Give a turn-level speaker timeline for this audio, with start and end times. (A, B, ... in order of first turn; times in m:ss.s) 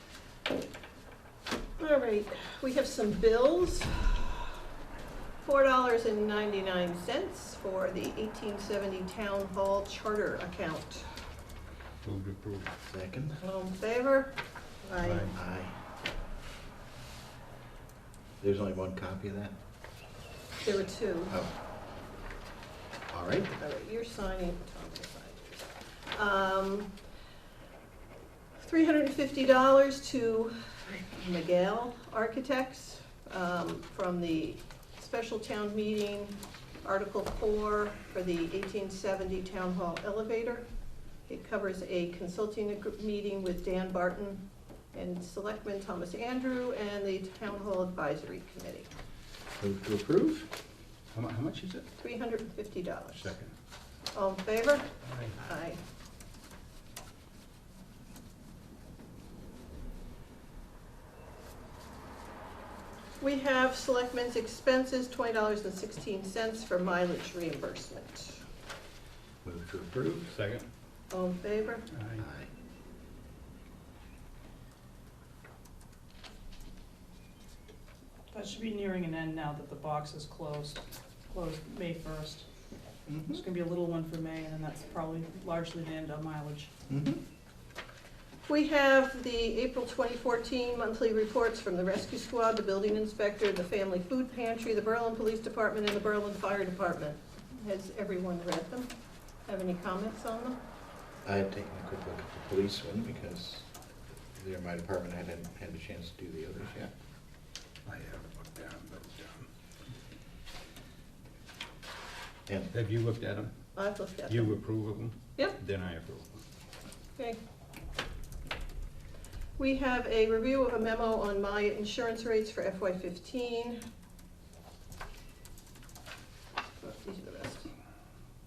0:01.8-0:04.5 A
0:05.4-0:11.2 A
0:12.0-0:12.7 B
0:12.9-0:13.4 C
0:13.4-0:14.3 A
0:14.8-0:15.4 A
0:15.0-0:15.3 B
0:15.3-0:15.7 C
0:18.4-0:19.5 C
0:20.6-0:21.4 A
0:23.1-0:23.5 C
0:23.6-0:26.9 A
0:28.6-0:40.6 A
0:41.3-0:44.4 A
0:44.9-0:48.9 A
0:49.6-0:50.5 C
0:51.1-0:51.9 B
0:52.0-0:53.3 A
0:53.1-0:53.5 B
0:54.1-0:55.8 A
0:55.1-0:55.4 B
1:03.2-1:08.4 A
1:09.4-1:10.3 C
1:10.3-1:10.7 B
1:11.1-1:11.8 A
1:11.9-1:12.2 B
1:12.2-1:12.5 C
1:18.3-1:22.4 D
1:23.1-1:23.4 C
1:23.2-1:26.7 D
1:26.9-1:27.2 C
1:28.5-1:38.9 A
1:39.5-1:40.6 A
1:41.2-1:43.7 C
1:44.4-1:46.9 C
1:47.9-1:49.5 B
1:52.7-1:53.5 B
1:53.8-1:54.6 A
1:54.3-1:56.4 B
1:59.6-2:03.8 A
2:06.8-2:07.7 A